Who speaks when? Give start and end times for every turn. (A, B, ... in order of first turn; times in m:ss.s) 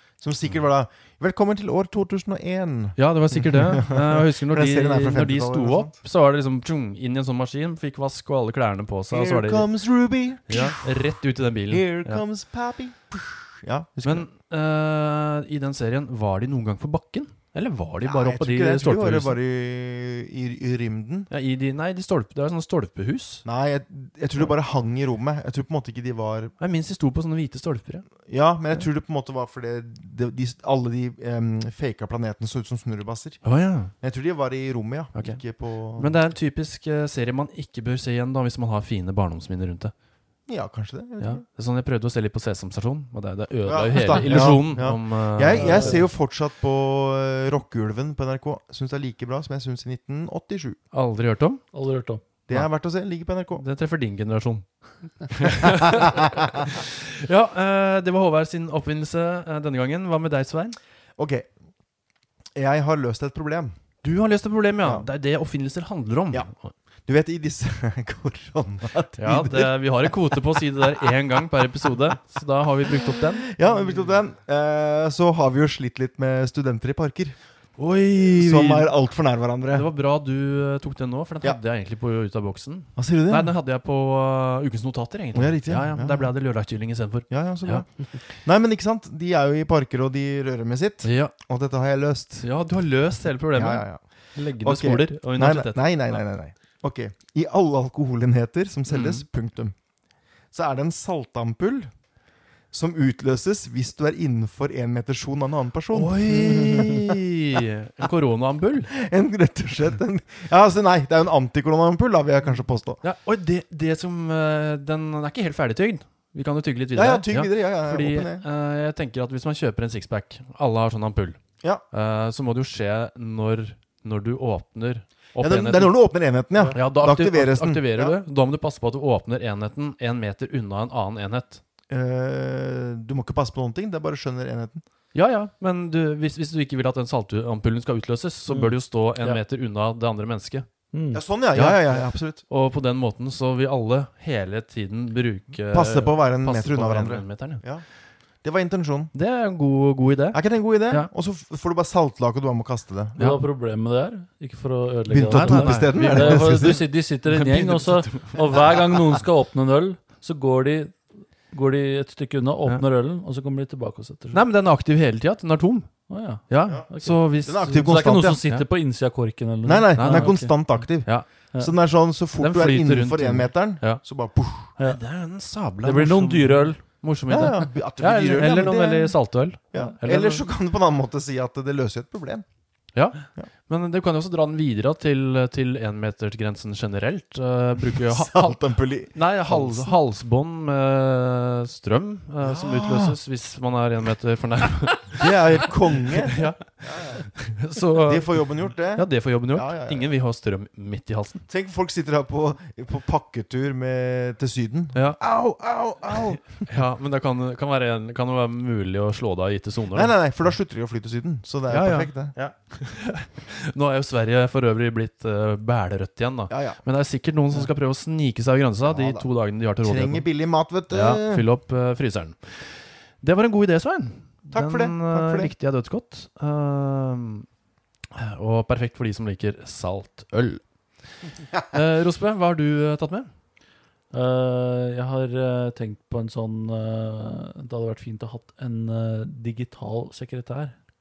0:00.2-0:05.9 A
0:03.0-0:09.7 B
0:09.1-0:10.8 A
0:10.5-0:12.2 B
0:11.7-0:14.3 A
0:14.0-0:19.4 B
0:18.0-0:21.3 A
0:21.3-0:23.4 B
0:23.4-0:26.5 A
0:26.6-0:28.1 B
0:28.2-0:33.4 A
0:33.4-0:33.9 B
0:34.0-0:36.1 A
0:35.1-0:35.4 B
0:36.0-0:39.9 B
0:40.5-0:41.4 A
0:41.2-0:46.1 B
0:43.6-0:50.8 A
0:44.0-0:44.5 C
0:45.6-0:46.0 C
0:50.9-0:51.6 B
0:51.7-0:52.2 C
0:52.5-0:53.6 A
0:53.6-0:54.7 B
0:55.2-1:00.8 B
0:56.0-0:56.4 A
1:01.2-1:01.5 A
1:02.5-1:03.8 A
1:04.0-1:06.7 B
1:07.1-1:11.1 A
1:09.2-1:13.5 B
1:13.4-1:17.4 A
1:17.8-1:18.9 B
1:18.3-1:19.9 A
1:19.7-1:27.8 B
1:23.0-1:23.5 A
1:25.3-1:26.3 A
1:27.3-1:32.5 A
1:31.0-1:31.3 B
1:32.4-1:36.2 B
1:33.5-1:34.0 A
1:34.6-1:39.7 A
1:38.9-1:39.2 B
1:40.5-1:41.9 A
1:42.7-1:47.2 A
1:45.9-1:48.9 B
1:48.9-1:53.0 A
1:53.0-2:01.4 B
1:56.9-1:58.4 A
2:01.9-2:05.9 B
2:05.4-2:08.2 A
2:06.7-2:11.6 B
2:11.9-2:14.8 A
2:15.1-2:20.6 B
2:20.9-2:21.2 C
2:21.1-2:22.4 A
2:21.5-2:27.6 B
2:25.7-2:27.8 A
2:28.4-2:29.1 A
2:29.1-2:31.1 B
2:30.3-2:33.2 A
2:33.2-2:44.4 C
2:35.1-2:36.8 A
2:35.2-2:38.7 B
2:44.3-2:48.6 B
2:46.1-2:50.3 C
2:46.7-2:48.4 A
2:49.6-2:54.7 A
2:50.0-2:51.2 B
2:52.4-2:54.0 B
2:54.6-3:00.5 B
2:55.8-2:56.8 C
2:57.3-2:59.2 A
2:59.7-3:02.4 A
3:02.9-3:08.6 B
3:08.1-3:09.9 A
3:09.1-3:21.4 B
3:12.4-3:13.2 A
3:15.2-3:17.2 A
3:18.0-3:20.1 A
3:21.5-3:26.7 A
3:26.1-3:30.1 B
3:29.9-3:32.3 A
3:31.7-3:40.2 B
3:36.5-3:36.8 A
3:38.9-3:39.2 A
3:39.8-3:41.4 A
3:40.9-3:47.4 B
3:44.5-3:45.5 A
3:48.1-3:50.6 B
3:51.7-3:53.3 B
3:54.1-4:00.7 C